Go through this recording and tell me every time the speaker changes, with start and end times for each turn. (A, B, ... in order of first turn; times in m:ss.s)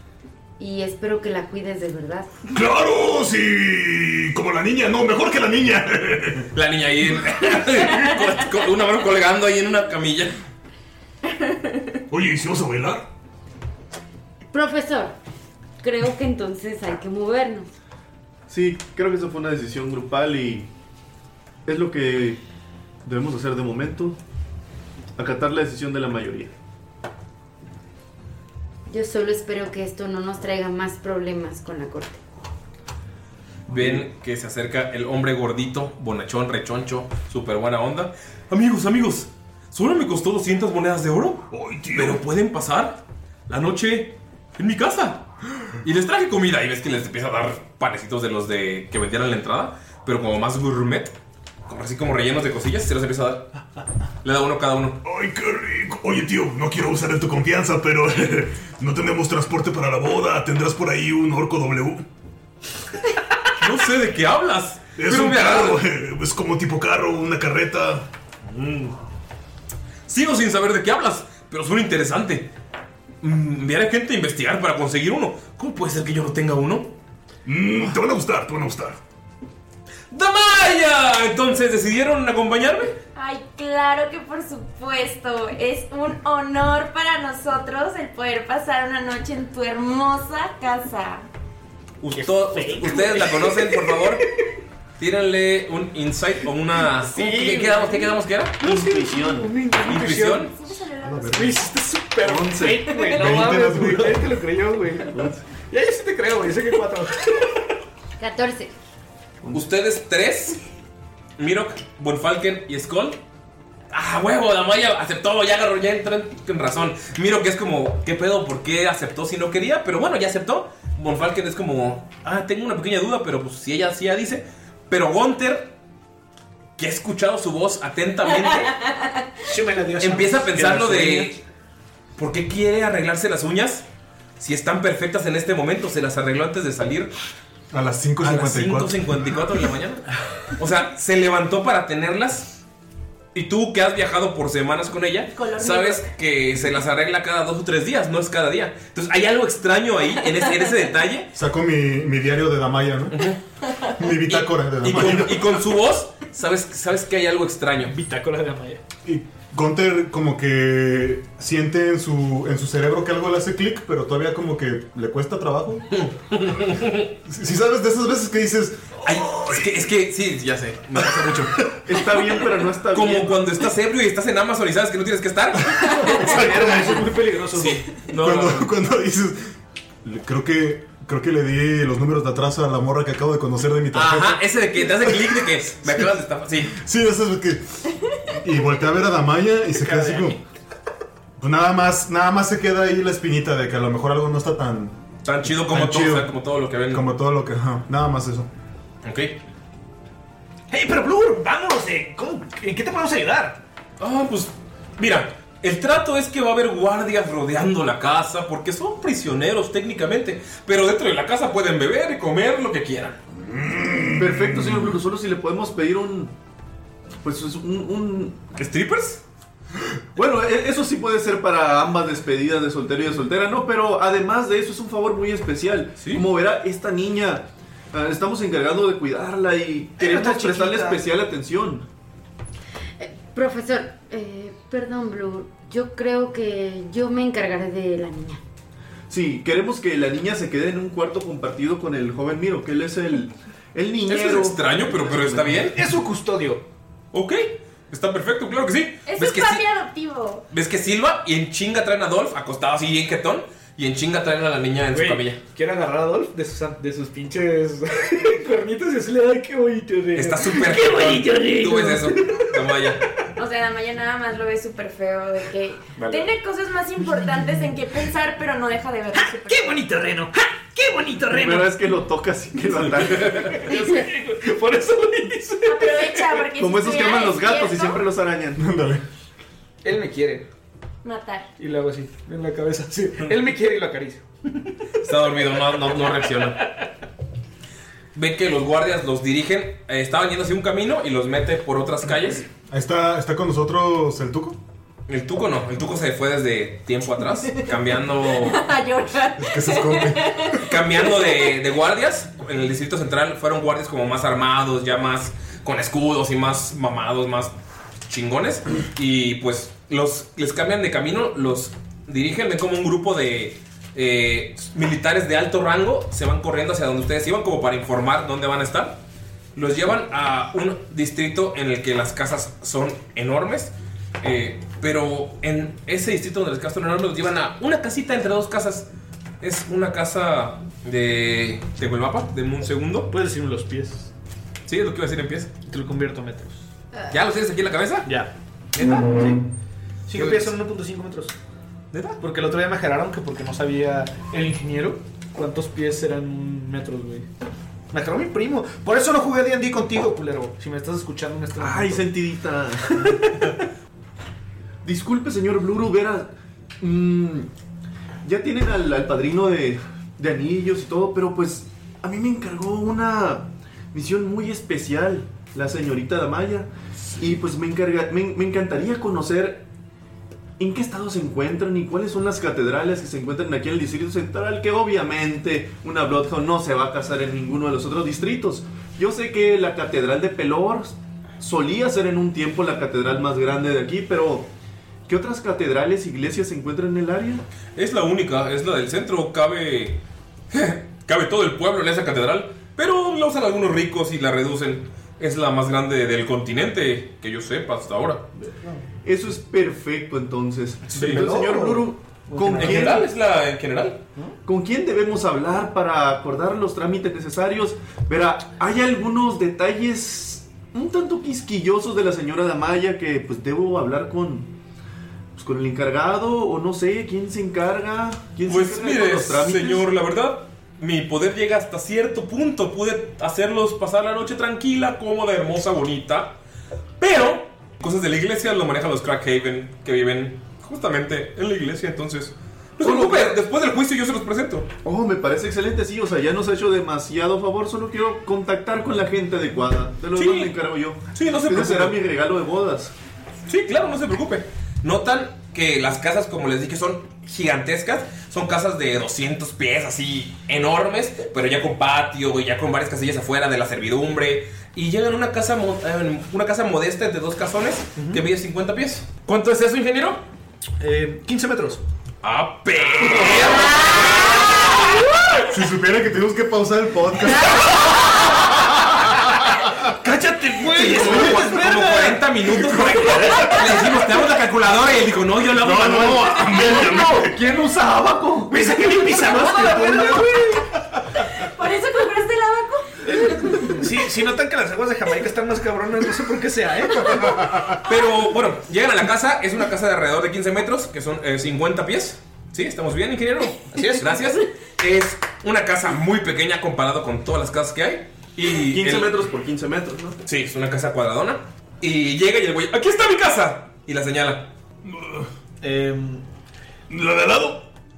0:00.6-0:02.3 A
0:02.5-0:06.5 B
0:06.5-0:10.4 C
0:12.1-0:13.1 B
0:14.5-0:15.1 A
0:15.8-0:17.7 A
0:18.5-0:20.7 D
0:21.7-0:22.4 D
0:23.0-0:24.2 D
0:25.2-0:26.5 D
0:28.9-0:32.2 A
0:33.7-0:45.2 C
0:33.8-0:34.0 D
0:41.5-0:42.2 B
0:45.8-0:51.1 C
0:51.7-0:53.5 C
0:54.2-0:55.0 C
0:55.0-1:02.0 B
1:03.6-1:05.8 C
1:05.0-1:08.1 B
1:08.5-1:09.0 C
1:10.1-1:12.5 C
1:13.2-1:16.9 C
1:17.4-1:19.0 B
1:20.1-1:23.0 C
1:23.2-1:31.3 E
1:32.0-1:34.2 C
1:32.1-1:34.2 F
1:35.0-1:38.6 C
1:37.1-1:40.5 F
1:38.6-1:39.5 D
1:39.8-1:40.5 C
1:40.5-1:41.7 E
1:41.0-1:41.6 G
1:41.3-1:47.5 F
1:42.2-1:43.1 D
1:43.1-1:44.3 G
1:45.1-1:45.4 D
1:48.2-1:48.7 A
1:49.5-1:50.6 C
1:51.4-1:53.2 C
1:53.9-2:05.7 C
2:06.8-2:08.8 C
2:09.4-2:11.4 F
2:10.0-2:11.4 C
2:12.2-2:13.8 C
2:14.4-2:17.1 C
2:17.7-2:19.0 G
2:18.2-2:22.6 C
2:23.3-2:31.3 C
2:25.3-2:26.1 E
2:31.4-2:33.2 G
2:33.1-2:33.4 C
2:34.0-2:35.6 G
2:34.3-2:38.0 C
2:37.8-2:38.8 F
2:39.0-2:45.8 G
2:45.9-2:47.1 C
2:47.2-2:48.9 G
2:49.0-2:49.9 B
2:49.0-2:51.7 C
2:51.9-2:53.4 D
2:52.9-2:56.2 C
2:55.8-2:56.6 G
2:56.0-2:57.9 F
2:57.5-2:58.7 C
2:58.2-2:59.5 G
3:00.0-3:06.1 G
3:03.9-3:06.8 C
3:06.7-3:07.6 G
3:08.3-3:10.4 G
3:09.7-3:10.4 F
3:11.4-3:16.3 G
3:15.2-3:17.1 C
3:16.9-3:18.5 G
3:19.0-3:19.4 C
3:20.7-3:23.6 F
3:24.0-3:33.2 C
3:33.4-3:35.0 B
3:34.2-3:36.3 D
3:37.2-3:38.4 D
3:38.6-3:39.2 C
3:40.2-3:51.8 D
3:50.0-3:51.0 F
3:53.0-3:58.4 A
3:59.1-4:05.7 D
4:04.1-4:05.8 C
4:05.7-4:06.6 F
4:07.1-4:09.6 C
4:09.1-4:10.4 E
4:10.5-4:15.4 C
4:14.9-4:22.8 F
4:20.1-4:23.0 C
4:23.4-4:29.8 E
4:26.0-4:26.3 F
4:29.1-4:31.7 F
4:31.3-4:33.8 D
4:33.0-4:36.4 F
4:35.7-4:38.0 E
4:36.6-4:38.6 D
4:38.6-4:39.0 G
4:39.8-4:40.5 F
4:41.0-4:41.5 E
4:41.6-4:44.2 F
4:45.0-4:46.6 C
4:45.9-4:46.6 F
4:48.1-4:52.4 C
4:52.7-4:54.6 G
4:55.1-4:58.6 C
4:58.4-5:01.5 E
4:59.4-5:00.6 G
5:00.7-5:07.5 C
5:08.1-5:19.0 C
5:19.6-5:28.9 C
5:29.4-5:33.1 C
5:33.1-5:34.1 F
5:34.7-5:35.5 C
5:35.7-5:36.6 F
5:37.1-5:38.1 C
5:38.1-5:39.4 F
5:38.8-5:39.1 C
5:40.1-5:41.4 F
5:40.2-5:40.5 C
5:41.9-5:42.2 C
5:42.2-5:47.3 F
5:47.9-5:52.1 F
5:51.6-5:53.2 D
5:53.0-5:53.4 F
5:54.8-5:56.3 D
5:56.8-5:57.5 D
5:58.2-6:09.6 D
6:10.6-6:24.5 D
6:25.1-6:27.4 D
6:27.8-6:30.0 C
6:30.5-6:38.2 C
6:38.4-6:38.8 F
6:39.0-6:43.0 D
6:40.9-6:43.1 F
6:41.0-6:41.3 C
6:42.6-6:44.0 C
6:44.4-6:54.5 D
6:55.4-6:59.8 D
6:58.5-7:06.4 C
7:07.0-7:14.7 C
7:12.8-7:13.4 D
7:14.8-7:22.9 D
7:20.2-7:20.6 C
7:21.1-7:22.0 C
7:23.5-7:40.2 C
7:38.0-7:38.2 F
7:40.8-7:41.8 F
7:42.2-7:44.8 C
7:43.0-7:44.0 F
7:45.5-7:47.8 G
7:49.9-7:53.9 F
7:50.6-7:56.5 C
7:55.6-7:58.5 G
7:55.9-7:57.2 B
7:58.5-8:00.7 F
7:59.1-7:59.9 D
8:01.3-8:03.6 E
8:03.1-8:07.5 F
8:07.8-8:19.1 C
8:13.7-8:14.3 F
8:18.7-8:20.2 D
8:20.2-8:24.5 C
8:24.8-8:25.3 B
8:25.6-8:26.2 F
8:26.9-8:27.7 B